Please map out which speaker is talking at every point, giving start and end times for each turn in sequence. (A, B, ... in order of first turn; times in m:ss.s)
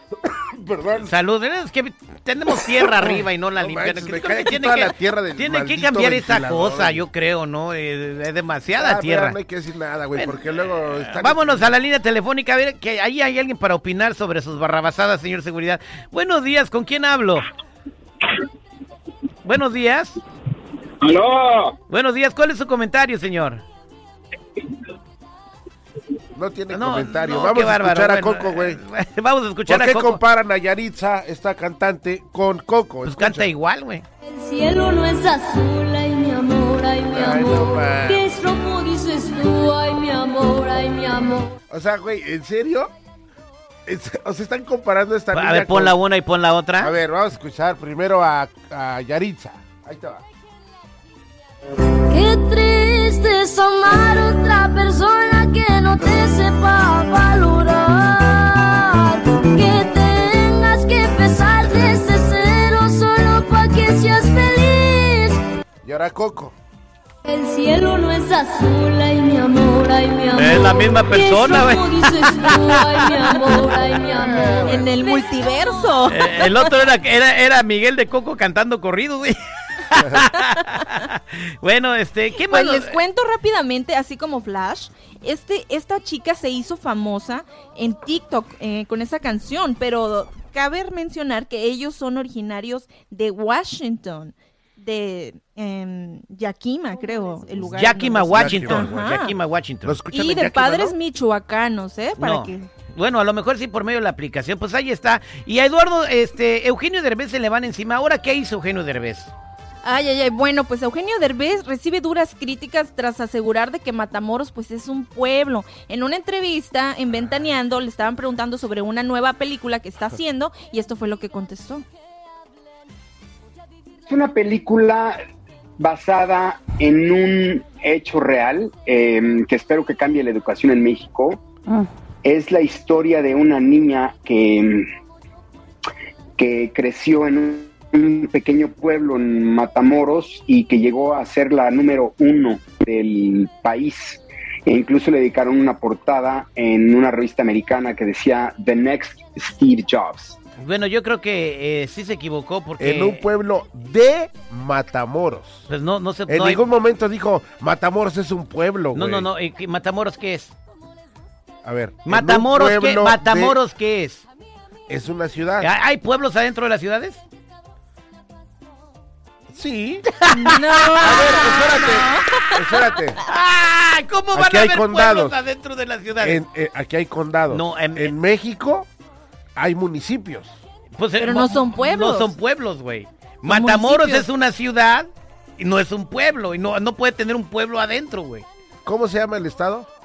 0:00.2-0:01.1 A
0:01.1-0:09.4 B
0:02.6-0:07.0 A
0:08.8-0:11.7 A
0:11.2-0:17.5 B
0:19.4-0:20.2 B
0:21.1-0:21.6 C
0:21.9-0:23.6 B
0:26.4-0:28.8 A
0:26.7-0:30.2 B
0:29.7-0:33.5 A
0:33.1-0:34.0 B
0:34.2-0:41.5 D
0:37.1-0:38.3 A
0:41.7-0:42.9 A
0:43.9-0:46.0 A
0:45.3-0:46.9 B
0:46.8-0:50.2 A
0:52.1-1:05.4 D
1:05.8-1:06.6 A
1:07.2-1:15.6 D
1:10.3-1:13.2 B
1:14.1-1:14.9 A
1:14.6-1:16.7 E
1:16.1-1:23.0 B
1:22.5-1:39.4 E
1:37.8-1:40.0 B
1:38.3-1:39.2 A
1:39.8-1:41.0 A
1:40.1-1:42.7 E
1:42.2-1:49.3 B
1:49.8-2:01.9 E
2:04.1-2:05.2 C
2:05.8-2:11.4 C
2:12.2-2:14.9 C
2:16.4-2:30.4 C
2:30.6-2:33.2 B
2:32.8-2:35.7 A
2:35.7-2:36.6 B
2:36.3-2:39.3 A
2:38.9-2:40.6 B
2:41.6-2:43.6 A
2:42.0-2:44.3 B
2:44.9-2:45.7 A
2:45.6-2:47.2 B
2:49.5-2:53.2 A
2:50.4-2:52.0 B
2:50.5-2:52.5 E
2:53.3-2:56.4 B
2:54.3-2:55.4 A
2:56.2-2:58.9 A
2:57.5-2:58.2 B
2:59.6-3:00.6 A
3:01.0-3:08.5 B
3:01.2-3:02.3 E
3:03.5-3:04.3 E
3:08.8-3:09.9 A